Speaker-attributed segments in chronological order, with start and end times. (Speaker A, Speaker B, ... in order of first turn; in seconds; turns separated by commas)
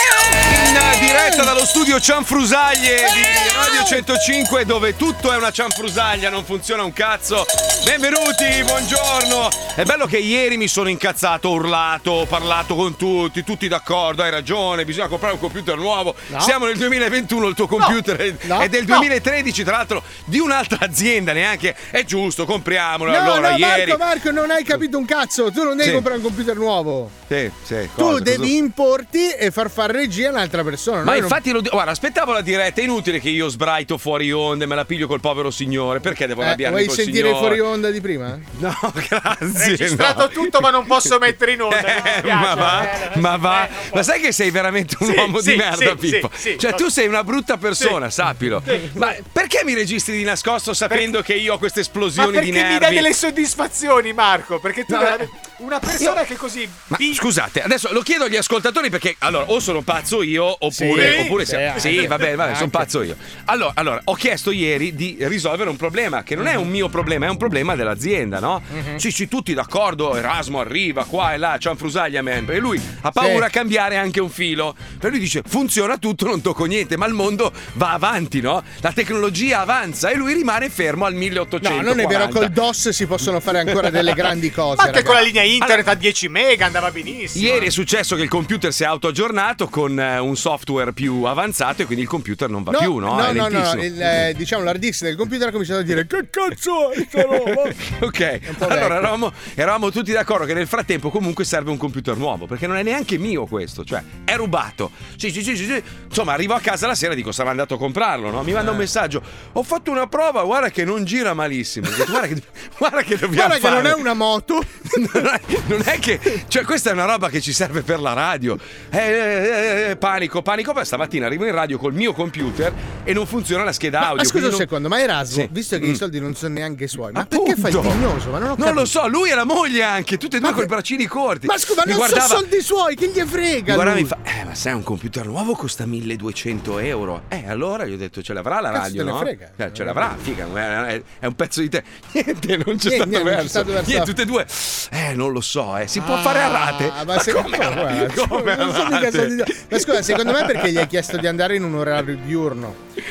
Speaker A: 0.4-24.0, Speaker B: 3.0-4.0, Speaker B: 16.3-16.6, Speaker B: 18.4-19.1, Speaker B: 23.1-27.1, Speaker A: 25.8-26.0, Speaker A: 27.3-28.5, Speaker B: 28.0-31.4, Speaker A: 31.0-37.6, Speaker B: 36.4-38.5, Speaker A: 38.5-41.1, Speaker C: 39.5-44.1, Speaker A: 41.7-53.1, Speaker C: 45.0-46.8, Speaker C: 48.6-49.1, Speaker C: 52.2-57.2, Speaker A: 54.9-55.1, Speaker A: 56.9-82.5, Speaker B: 60.7-62.9, Speaker C: 61.0-62.1, Speaker B: 66.4-66.6, Speaker B: 68.7-69.0, Speaker B: 73.2-73.5, Speaker B: 81.6-85.3, Speaker C: 84.8-87.7, Speaker A: 85.6-85.9, Speaker A: 87.3-93.9, Speaker B: 92.7-97.8, Speaker A: 97.2-114.0, Speaker B: 98.5-99.1, Speaker B: 108.6-108.8, Speaker B: 113.3-115.2, Speaker A: 114.9-124.7, Speaker B: 124.0-128.9, Speaker A: 125.3-126.0, Speaker A: 127.2-128.0, Speaker A: 128.6-132.4, Speaker B: 130.4-130.7, Speaker B: 131.4-134.1, Speaker A: 133.7-150.8, Speaker B: 138.7-140.0, Speaker B: 142.8-144.2, Speaker B: 145.9-152.8